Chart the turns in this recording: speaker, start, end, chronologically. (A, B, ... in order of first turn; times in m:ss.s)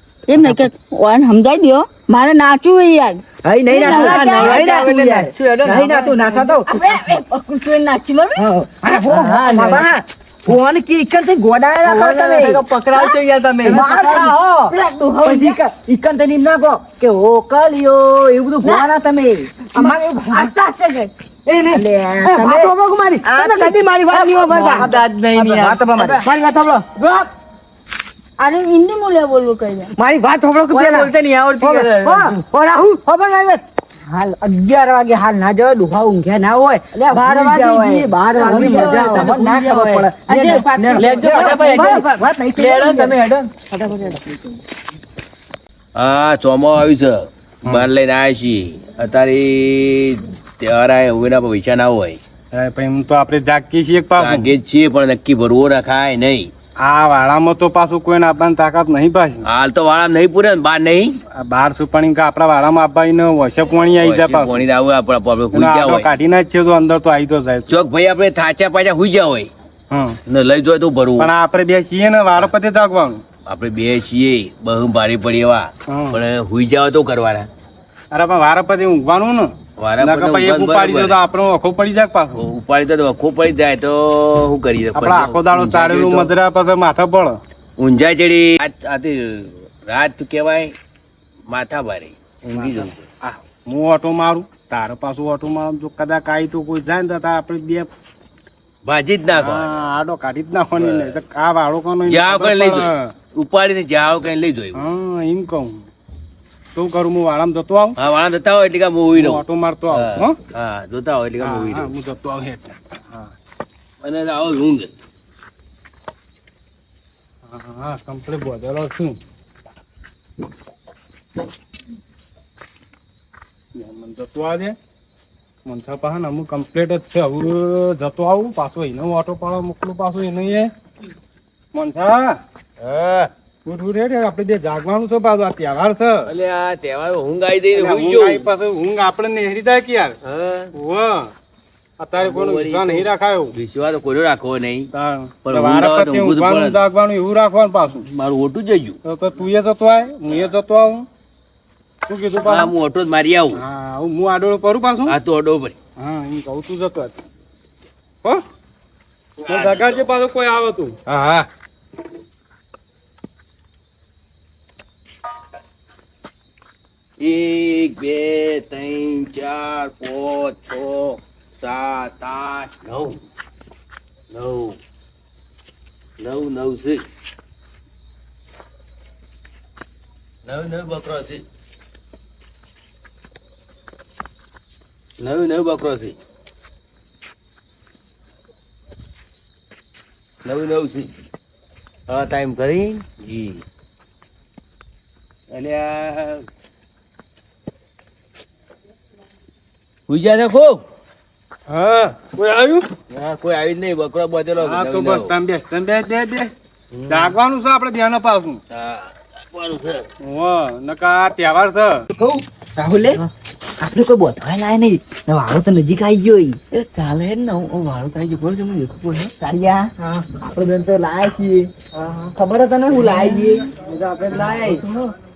0:00.3-0:04.8 A
0:00.4-0:00.7 B
0:03.4-0:07.2 B
0:03.7-0:06.3 C
0:06.6-0:08.4 A
0:08.4-0:12.6 B
0:09.0-0:09.9 C
0:11.8-0:13.8 C
0:12.9-0:13.2 A
0:13.6-0:14.4 B
0:13.6-0:14.7 D
0:14.7-0:15.6 A
0:15.2-0:20.5 B
0:19.7-0:20.4 D
0:19.8-0:21.1 A
0:21.4-0:23.8 D
0:21.7-0:22.7 B
0:23.2-0:26.2 B
0:24.1-0:24.7 A
0:24.3-0:25.9 C
0:26.0-0:26.9 D
0:26.9-0:27.3 A
0:28.4-0:29.9 A
0:30.0-0:39.6 D
0:30.7-0:32.4 C
0:36.9-0:43.2 B
0:38.4-0:40.0 C
0:40.3-0:42.1 A
0:40.9-0:43.5 C
0:41.4-0:42.0 D
0:43.6-0:44.4 D
0:45.9-0:52.2 E
0:52.5-0:54.5 F
0:54.2-0:56.5 E
0:56.8-0:59.4 F
0:59.4-1:01.2 E
1:01.4-1:04.6 F
1:04.0-1:06.1 E
1:05.5-1:07.7 F
1:07.7-1:09.5 E
1:09.9-1:10.2 F
1:10.3-1:11.3 E
1:11.2-1:13.2 F
1:13.4-1:17.5 E
1:15.9-1:16.2 F
1:18.1-1:22.4 F
1:19.8-1:21.2 E
1:22.4-1:26.3 E
1:24.9-1:27.4 F
1:27.8-1:30.7 E
1:31.5-1:33.0 E
1:32.5-1:37.9 F
1:38.8-1:39.8 E
1:39.3-1:43.1 F
1:40.8-1:41.2 E
1:42.1-1:44.9 E
1:44.7-1:45.8 F
1:46.7-1:48.0 F
1:48.0-1:51.9 E
1:49.1-1:50.4 F
1:51.4-1:53.3 F
1:54.0-1:54.9 E
1:57.4-1:59.2 F
2:03.8-2:04.8 F
2:05.6-2:10.7 F
2:11.7-2:12.4 F
2:12.8-2:13.3 E
2:13.6-2:16.3 F
2:16.3-2:18.4 E
2:17.7-2:20.1 F
2:20.2-2:20.7 E
2:20.7-2:21.3 F
2:22.0-2:23.6 F
2:22.2-2:24.9 E
2:24.9-2:28.0 F
2:25.4-2:26.8 E
2:28.0-2:29.0 E
2:29.0-2:31.0 F
2:32.1-2:32.7 F
2:32.4-2:33.6 E
2:33.5-2:35.2 F
2:35.1-2:35.8 E
2:36.0-2:37.2 F
2:39.4-2:40.9 F
2:39.5-2:40.1 E
2:41.1-2:41.5 E
2:47.2-2:53.2 E
2:54.3-2:54.8 E
2:56.2-2:57.0 E
3:00.4-3:01.4 E
3:05.2-3:06.2 E
3:10.4-3:11.1 E
3:12.1-3:13.6 E
3:15.5-3:16.4 E
3:20.1-3:20.8 E
3:21.7-3:22.9 F
3:23.1-3:25.3 E
3:24.6-3:26.5 F
3:26.9-3:27.4 E
3:27.1-3:28.6 F
3:28.7-3:30.1 E
3:30.2-3:32.0 F
3:32.1-3:33.2 B
3:33.8-3:36.6 B
3:36.7-3:39.3 C
3:39.4-3:41.7 B
3:40.0-3:40.3 D
3:41.9-3:42.4 D
3:42.3-3:43.6 B
3:43.0-3:44.8 D
3:43.0-3:43.5 C
3:44.3-3:45.1 C